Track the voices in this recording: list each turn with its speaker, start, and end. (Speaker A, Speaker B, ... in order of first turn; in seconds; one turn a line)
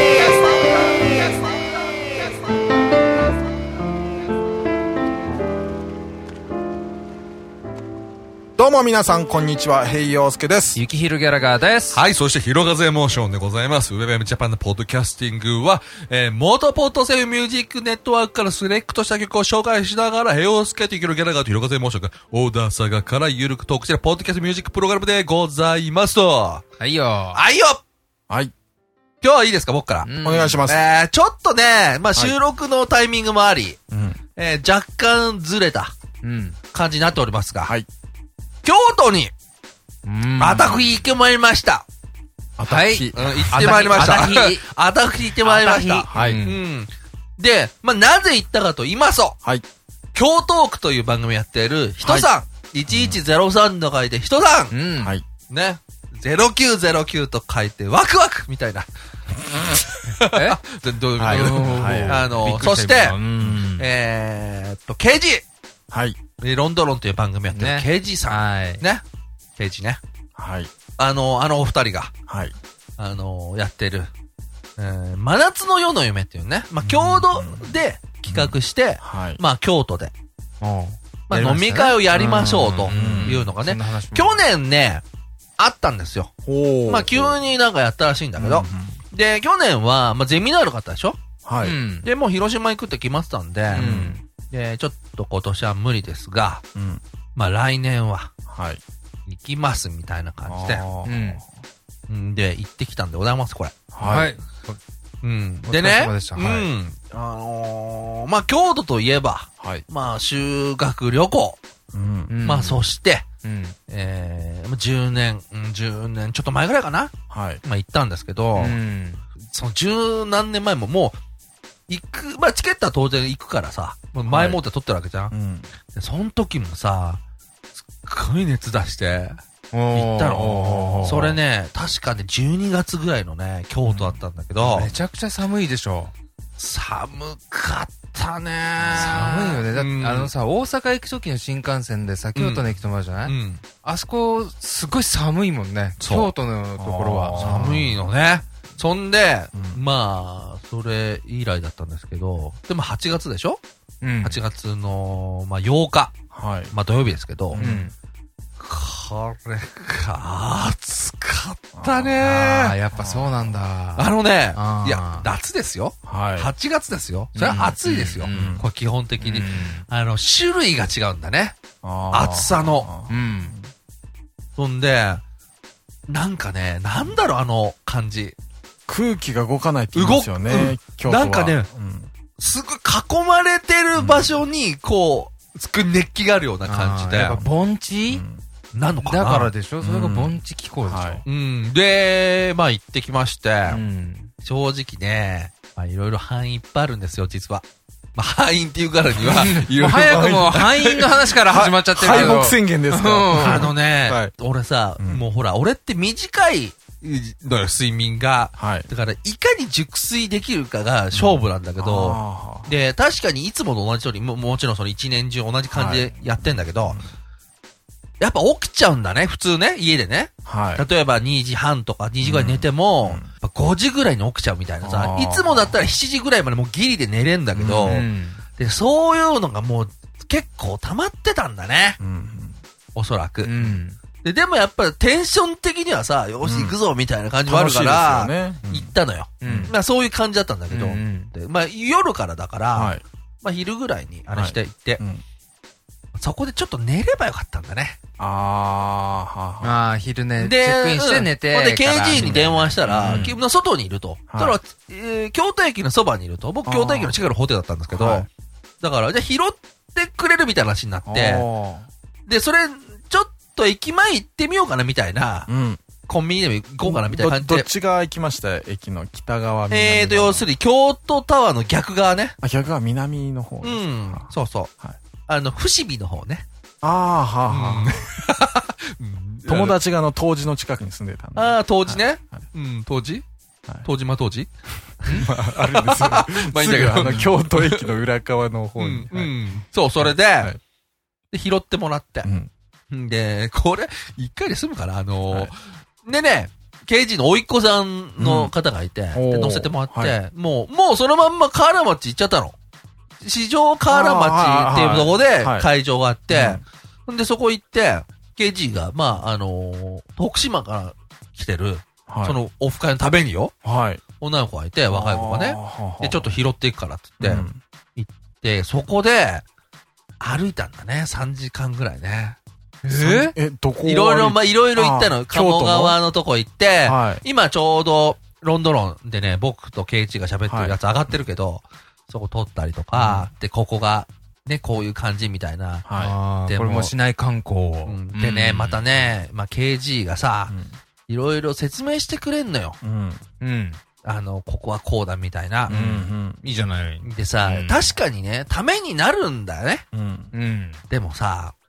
Speaker A: 8.6-10.8
Speaker B: 10.7-12.0
Speaker C: 11.9-26.6
Speaker B: 26.8-27.4
Speaker C: 27.3-27.8
Speaker C: 29.2-30.1
Speaker B: 30.0-30.6
Speaker A: 30.2-30.8
Speaker C: 30.7-33.8
Speaker A: 33.9-34.2
Speaker C: 34.4-35.9
Speaker B: 36.2-36.6
Speaker C: 36.7-37.7
Speaker C: 38.6-39.3
Speaker B: 40.0-40.8
Speaker C: 40.4-41.9
Speaker A: 42.6-43.5
Speaker B: 42.7-44.6
Speaker C: 43.1-49.4
Speaker B: 45.4-46.6
Speaker A: 46.1-46.4
Speaker C: 50.1-54.8
Speaker A: 52.0-52.3
Speaker B: 54.7-55.1
Speaker A: 55.0-55.2
Speaker C: 55.5-58.9
Speaker C: 60.0-63.2
Speaker B: 60.3-60.6
Speaker A: 61.2-62.2
Speaker B: 61.2-63.9
Speaker C: 63.8-65.4
Speaker A: 65.9-66.2
Speaker C: 66.4-69.0
Speaker B: 67.5-68.8
Speaker C: 69.6-70.0
Speaker A: 70.4-70.7
Speaker C: 71.0-72.1
Speaker A: 72.3-72.5
Speaker C: 73.0-74.1
Speaker C: 74.8-80.1
Speaker A: 76.8-77.7
Speaker A: 78.3-79.4
Speaker B: 80.6-84.4
Speaker C: 81.3-85.0
Speaker A: 82.9-83.4
Speaker C: 85.6-86.3
Speaker A: 86.5-87.4
Speaker C: 86.9-91.2
Speaker A: 88.4-89.0
Speaker A: 91.4-91.8
Speaker B: 91.6-92.1
Speaker C: 92.0-93.9
Speaker A: 93.7-94.2
Speaker B: 93.7-94.2
Speaker C: 94.5-96.6
Speaker A: 96.7-97.0
Speaker C: 97.3-98.3
Speaker A: 98.5-98.8
Speaker C: 99.3-100.8
Speaker A: 100.5-101.4
Speaker B: 101.0-101.4
Speaker C: 102.1-103.7
Speaker A: 103.9-104.3
Speaker B: 104.0-104.8
Speaker C: 105.2-111.6
Speaker B: 105.7-106.7
Speaker A: 111.9-112.3
Speaker B: 112.3-112.8
Speaker C: 112.4-113.2
Speaker B: 113.4-113.8
Speaker C: 113.9-118.8
Speaker A: 117.3-117.6
Speaker B: 118.5-119.2
Speaker C: 119.5-121.2
Speaker C: 121.9-125.3
Speaker A: 124.2-124.6
Speaker A: 125.3-125.7
Speaker C: 125.9-127.2
Speaker C: 127.9-129.4
Speaker B: 129.7-131.4
Speaker C: 129.9-134.9
Speaker A: 133.8-134.2
Speaker B: 134.6-136.1
Speaker C: 136.6-140.3
Speaker B: 138.9-147.7
Speaker C: 142.3-142.7
Speaker C: 143.2-143.6
Speaker C: 146.0-146.3
Speaker A: 146.8-148.0
Speaker C: 147.3-153.6
Speaker A: 149.5-149.8
Speaker B: 154.0-154.4
Speaker C: 154.2-156.1
Speaker A: 156.3-156.7
Speaker C: 156.7-157.6
Speaker A: 157.5-157.9
Speaker B: 157.6-157.9
Speaker C: 158.6-162.8
Speaker A: 161.7-162.2
Speaker B: 162.2-165.3
Speaker A: 162.9-163.5
Speaker C: 164.0-171.6
Speaker A: 166.1-166.5
Speaker B: 167.3-168.6
Speaker A: 168.3-168.6
Speaker B: 169.2-169.8
Speaker A: 171.8-173.7
Speaker C: 172.1-172.9
Speaker B: 173.1-173.5
Speaker C: 174.6-175.2
Speaker C: 176.1-178.3
Speaker A: 178.9-182.1
Speaker C: 179.9-181.7
Speaker C: 182.4-187.4
Speaker A: 183.9-184.3
Speaker B: 186.6-188.2
Speaker A: 188.1-188.4
Speaker C: 188.7-190.3
Speaker B: 189.0-191.2
Speaker A: 190.8-191.2
Speaker C: 191.2-193.8
Speaker B: 193.7-194.3
Speaker C: 194.4-201.1
Speaker B: 199.2-203.7
Speaker A: 199.9-200.4
Speaker A: 201.4-204.3
Speaker C: 201.9-202.4
Speaker C: 203.4-217.0
Speaker A: 208.6-208.8
Speaker A: 211.1-212.7
Speaker A: 215.7-217.1
Speaker C: 218.2-232.0
Speaker A: 220.4-220.8
Speaker A: 222.2-223.3
Speaker A: 224.8-225.8
Speaker A: 227.5-228.1
Speaker B: 227.6-228.4
Speaker A: 232.0-232.6
Speaker C: 232.9-233.6
Speaker B: 233.4-234.0
Speaker C: 234.2-245.0
Speaker A: 236.4-236.8
Speaker A: 237.4-239.7
Speaker B: 239.4-239.7
Speaker B: 240.7-241.3
Speaker A: 242.7-243.0
Speaker A: 244.3-245.2
Speaker C: 246.2-248.0
Speaker A: 248.2-249.8
Speaker B: 249.6-253.3
Speaker C: 250.4-258.3
Speaker A: 252.8-253.3
Speaker A: 254.3-254.6
Speaker A: 256.6-257.1
Speaker A: 257.9-258.3
Speaker C: 258.8-261.4
Speaker A: 261.0-261.9
Speaker C: 262.2-265.5
Speaker A: 265.5-265.8
Speaker C: 266.1-267.7
Speaker A: 266.8-270.5
Speaker C: 269.7-272.4
Speaker A: 272.4-274.3
Speaker C: 273.6-274.7
Speaker C: 275.3-276.4
Speaker A: 276.8-278.0
Speaker C: 277.5-279.8
Speaker A: 279.4-282.4
Speaker C: 281.3-283.2
Speaker C: 283.8-284.5
Speaker C: 285.0-287.9
Speaker A: 285.0-289.3
Speaker C: 288.8-290.5
Speaker A: 290.1-290.6
Speaker C: 291.3-292.3
Speaker A: 292.2-292.5
Speaker C: 292.9-302.6
Speaker A: 298.2-298.5
Speaker A: 299.1-300.1
Speaker C: 303.2-313.5
Speaker A: 303.9-305.7
Speaker A: 306.3-306.6
Speaker A: 312.1-312.4
Speaker A: 313.6-314.0
Speaker C: 314.2-319.4
Speaker A: 314.9-316.3
Speaker A: 317.2-317.6
Speaker C: 320.2-322.4
Speaker B: 322.8-323.3
Speaker A: 322.9-326.0
Speaker C: 323.8-335.8
Speaker A: 326.9-327.2
Speaker A: 330.5-330.8
Speaker A: 332.9-333.3
Speaker A: 335.9-336.1
Speaker B: 335.9-339.0
Speaker C: 336.5-336.9
Speaker C: 337.9-340.5
Speaker A: 340.5-340.8
Speaker C: 341.1-342.8
Speaker A: 342.8-343.2
Speaker B: 343.4-343.8
Speaker C: 344.0-346.0
Speaker A: 345.7-346.4
Speaker B: 345.7-347.9
Speaker C: 347.0-349.8
Speaker A: 349.9-350.3
Speaker B: 350.3-350.8
Speaker C: 350.9-351.5